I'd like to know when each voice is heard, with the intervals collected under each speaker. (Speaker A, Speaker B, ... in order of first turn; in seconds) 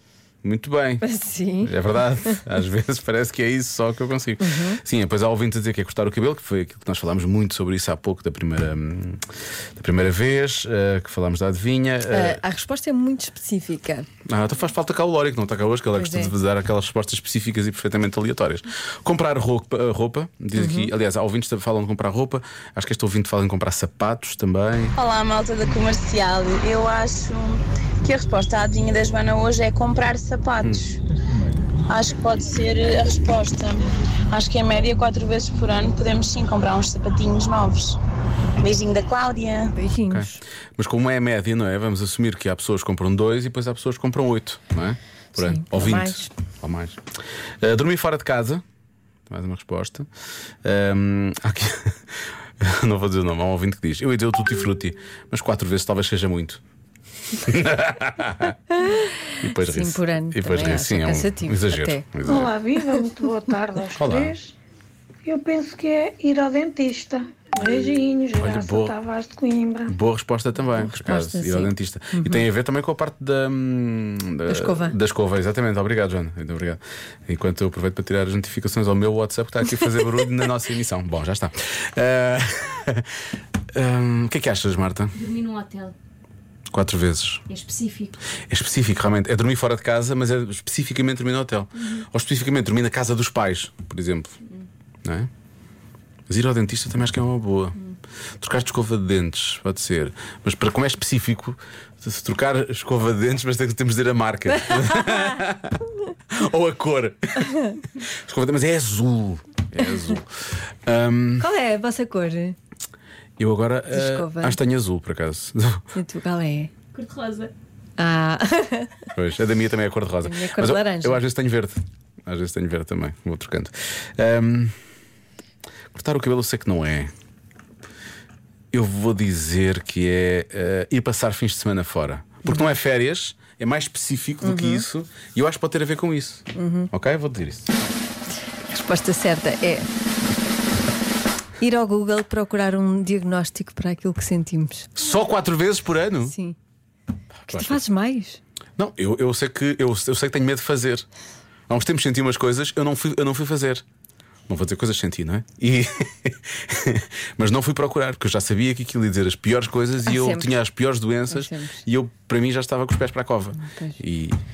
Speaker A: 0.4-1.0, 1.6-9.2, 9.8-12.4, 14.3-24.9, 40.1-47.0, 47.6-48.6, 49.3-50.1, 50.6-52.0, 52.6-56.6, 57.4-58.6, 59.4-62.5, 63.9-64.4, 67.6-69.0, 69.9-83.1, 83.7-85.1, 86.7-87.4, 88.5-94.4, 95.0-95.3, 96.3-97.8, 98.4-111.5, 113.4-115.8, 119.2-124.7, 125.9-127.1, 128.7-137.7, 144.9-146.3, 147.4-147.8, 148.8-151.1, 151.7-153.8, 154.5-164.4
Speaker B: 1.0-1.8, 4.4-4.8, 12.1-14.1, 15.9-16.4, 20.6-20.9, 39.7-40.4, 45.4-46.3, 58.8-62.0, 70.8-72.4, 74.5-75.0, 111.4-112.6, 113.9-114.6, 115.9-116.7, 118.0-119.0, 120.2-121.2, 134.4-134.8, 136.6-136.9, 138.7-139.9, 141.6-144.9, 146.2-146.6, 147.5-148.4, 160.0-160.5, 161.3-161.8, 163.6-164.0
Speaker C: 24.9-31.0, 31.9-38.0, 38.6-39.7
Speaker D: 62.3-64.4, 65.2-69.9
Speaker E: 85.1-85.9, 87.5-88.1, 116.9-117.5